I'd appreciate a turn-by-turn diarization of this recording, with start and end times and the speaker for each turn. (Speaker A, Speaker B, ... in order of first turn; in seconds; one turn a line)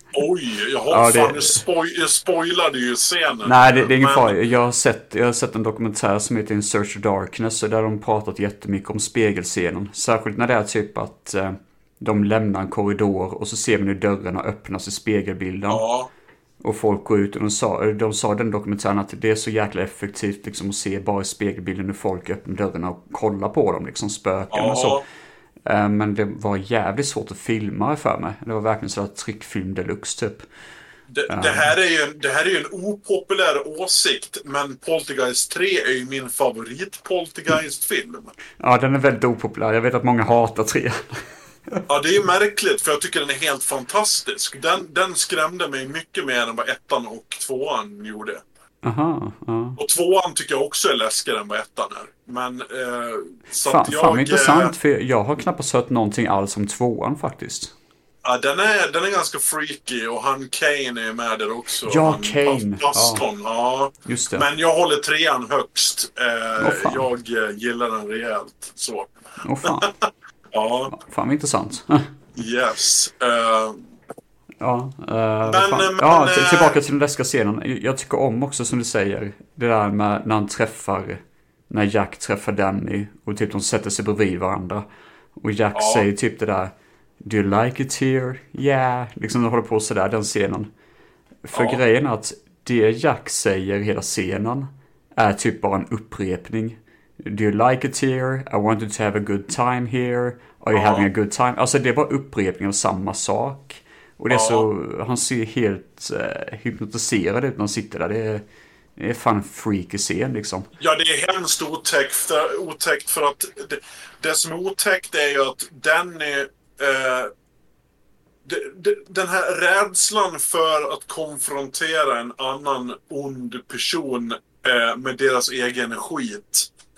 Speaker A: 0.1-4.4
Speaker B: 0.9-1.6
Speaker B: 3.5-15.9
Speaker A: 15.7-16.1
Speaker B: 16.6-25.0
Speaker A: 24.5-25.0
Speaker B: 25.6-30.4
Speaker A: 31.1-38.3
Speaker B: 31.3-31.7
Speaker B: 38.6-41.8
Speaker A: 41.9-48.4
Speaker B: 48.8-49.8
Speaker A: 49.8-54.7
Speaker B: 53.6-57.7
Speaker A: 58.2-69.1
Speaker B: 61.9-63.2
Speaker B: 64.0-64.5
Speaker B: 66.6-67.0
Speaker B: 69.4-69.9
Speaker A: 69.7-70.9
Speaker B: 70.9-72.1
Speaker A: 72.4-73.8
Speaker B: 74.6-84.9
Speaker A: 75.5-76.8
Speaker B: 85.4-90.7
Speaker A: 85.7-86.1
Speaker B: 91.5-108.5
Speaker A: 91.5-91.8
Speaker A: 100.7-101.1
Speaker A: 104.3-104.7
Speaker B: 109.0-110.7
Speaker A: 110.8-117.3
Speaker A: 118.5-126.7